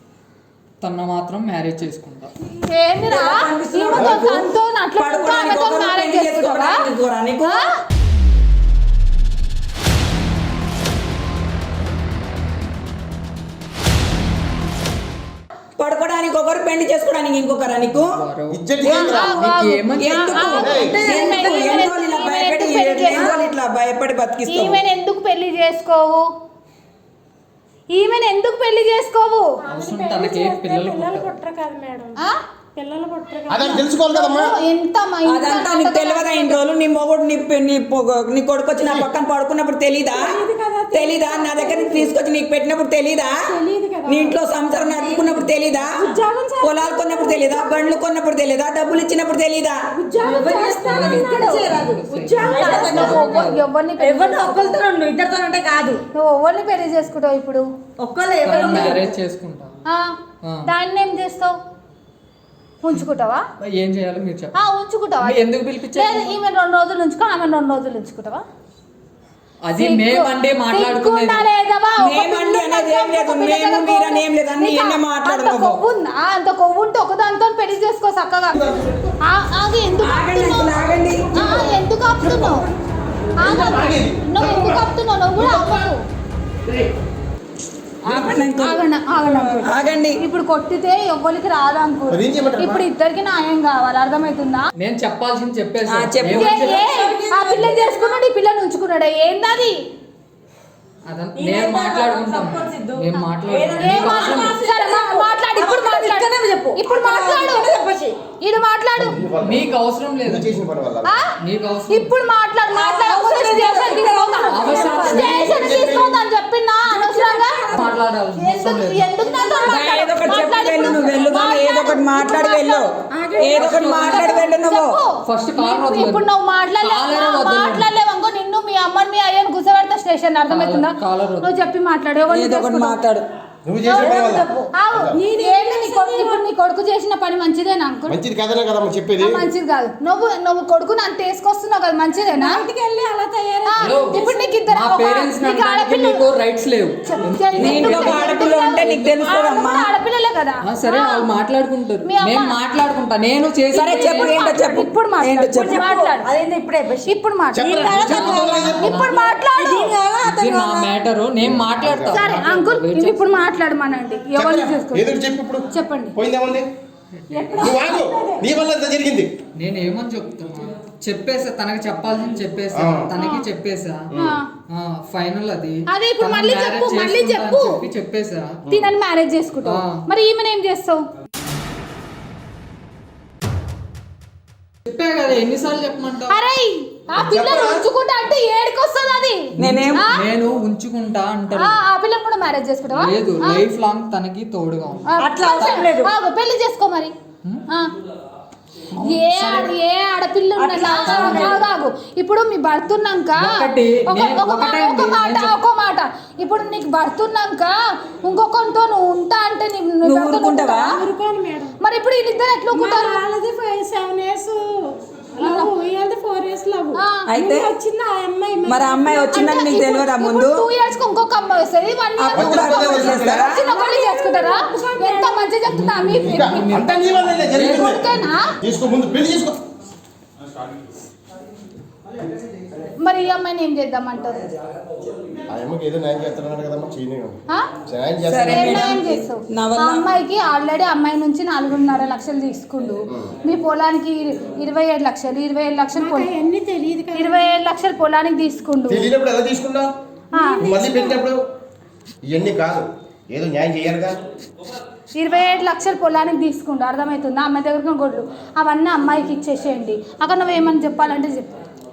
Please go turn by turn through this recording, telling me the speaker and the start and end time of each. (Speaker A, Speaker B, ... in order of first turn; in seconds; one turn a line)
Speaker A: 0.8-2.3
Speaker B: 2.4-6.8
Speaker C: 3.1-7.7
Speaker B: 7.4-7.7
Speaker C: 15.8-18.1
Speaker A: 17.9-20.7
Speaker D: 18.5-19.5
Speaker B: 18.8-23.5
Speaker C: 20.0-24.8
Speaker D: 20.6-21.0
Speaker E: 20.8-21.6
Speaker B: 24.5-26.2
Speaker B: 27.9-29.5
Speaker E: 29.6-32.2
Speaker A: 29.6-31.3
Speaker E: 32.8-33.9
Speaker D: 33.5-34.5
Speaker B: 34.1-36.6
Speaker C: 35.2-40.4
Speaker E: 40.1-42.1
Speaker C: 40.9-43.4
Speaker E: 43.4-44.4
Speaker C: 44.0-46.0
Speaker E: 44.9-48.0
Speaker F: 45.1-45.4
Speaker C: 46.6-49.8
Speaker E: 49.9-53.3
Speaker F: 50.2-53.3
Speaker A: 50.5-53.6
Speaker B: 52.5-54.8
Speaker F: 54.0-56.0
Speaker B: 56.1-57.6
Speaker F: 58.0-59.1
Speaker A: 58.4-59.7
Speaker B: 59.9-61.5
Speaker A: 60.4-60.7
Speaker B: 62.8-63.4
Speaker A: 63.6-64.5
Speaker B: 64.5-65.4
Speaker A: 65.2-66.3
Speaker B: 65.9-68.4
Speaker A: 69.6-71.4
Speaker B: 69.8-82.7
Speaker C: 72.0-75.8
Speaker D: 78.5-79.0
Speaker C: 80.0-81.6
Speaker D: 81.4-82.6
Speaker D: 83.3-85.9
Speaker B: 83.4-86.0
Speaker C: 88.0-88.8
Speaker B: 88.1-94.7
Speaker C: 89.5-90.2
Speaker D: 92.1-92.8
Speaker A: 94.8-96.8
Speaker C: 95.9-96.7
Speaker B: 96.3-99.8
Speaker F: 96.5-98.2
Speaker A: 101.1-104.5
Speaker F: 101.3-108.2
Speaker B: 103.8-107.8
Speaker B: 108.4-109.2
Speaker D: 109.0-109.7
Speaker A: 109.4-110.6
Speaker D: 110.2-111.1
Speaker B: 111.0-111.4
Speaker A: 111.4-112.1
Speaker B: 111.9-122.9
Speaker F: 112.7-115.6
Speaker A: 114.5-115.4
Speaker D: 115.2-116.2
Speaker F: 116.9-118.0
Speaker A: 117.7-119.1
Speaker F: 119.2-119.7
Speaker C: 119.7-125.0
Speaker F: 123.2-124.3
Speaker E: 123.3-124.4
Speaker B: 123.6-133.0
Speaker A: 125.2-126.2
Speaker A: 126.8-127.9
Speaker A: 130.5-131.6
Speaker C: 132.3-133.2
Speaker D: 133.6-135.2
Speaker B: 133.8-138.2
Speaker F: 133.9-134.7
Speaker E: 135.1-136.4
Speaker D: 138.1-139.4
Speaker B: 139.2-142.6
Speaker E: 142.3-144.6
Speaker B: 143.7-146.2
Speaker A: 143.8-149.0
Speaker B: 147.0-151.3
Speaker C: 147.6-149.9
Speaker A: 150.7-154.4
Speaker B: 152.0-152.6
Speaker B: 153.7-156.3
Speaker C: 153.7-155.8
Speaker F: 155.5-160.9
Speaker B: 157.1-158.2
Speaker D: 157.6-158.9
Speaker A: 157.8-159.2
Speaker B: 158.8-159.9
Speaker A: 160.2-163.4
Speaker D: 161.4-162.2
Speaker B: 162.1-165.2
Speaker D: 164.3-166.7
Speaker B: 165.7-166.1
Speaker A: 167.2-167.7
Speaker F: 167.3-168.5
Speaker D: 167.6-169.3
Speaker A: 169.6-174.1
Speaker D: 172.7-173.1
Speaker B: 173.1-173.4
Speaker D: 174.1-174.4
Speaker B: 174.1-174.4
Speaker A: 174.7-178.9
Speaker B: 175.9-177.8
Speaker B: 178.7-181.0
Speaker A: 179.6-180.0
Speaker A: 184.8-186.4
Speaker B: 186.3-190.2
Speaker A: 187.2-187.7
Speaker D: 187.4-187.8
Speaker A: 189.6-191.8
Speaker C: 189.6-190.1
Speaker B: 191.5-193.6
Speaker A: 192.9-195.1
Speaker B: 195.1-197.1
Speaker F: 195.2-196.1
Speaker A: 198.9-199.7
Speaker B: 199.0-210.9
Speaker F: 200.6-201.6
Speaker A: 201.1-201.6
Speaker A: 203.4-205.5
Speaker C: 210.0-210.9
Speaker E: 210.8-211.7
Speaker B: 211.8-213.2
Speaker E: 212.7-219.7
Speaker B: 215.4-215.7
Speaker B: 216.9-217.2
Speaker C: 217.3-217.7
Speaker C: 218.6-220.6
Speaker B: 219.3-226.8
Speaker C: 222.2-223.6
Speaker D: 222.3-223.5
Speaker E: 223.5-225.5
Speaker A: 225.7-228.1
Speaker D: 226.2-228.1
Speaker B: 227.5-228.5
Speaker D: 228.6-229.6
Speaker B: 233.0-234.4
Speaker D: 235.5-238.9
Speaker C: 238.3-240.1
Speaker B: 238.5-246.3
Speaker E: 246.0-247.4
Speaker B: 247.1-249.1
Speaker D: 248.9-249.9
Speaker B: 250.3-251.1
Speaker E: 250.3-251.2
Speaker D: 250.6-251.4
Speaker D: 252.2-254.2
Speaker B: 255.1-261.5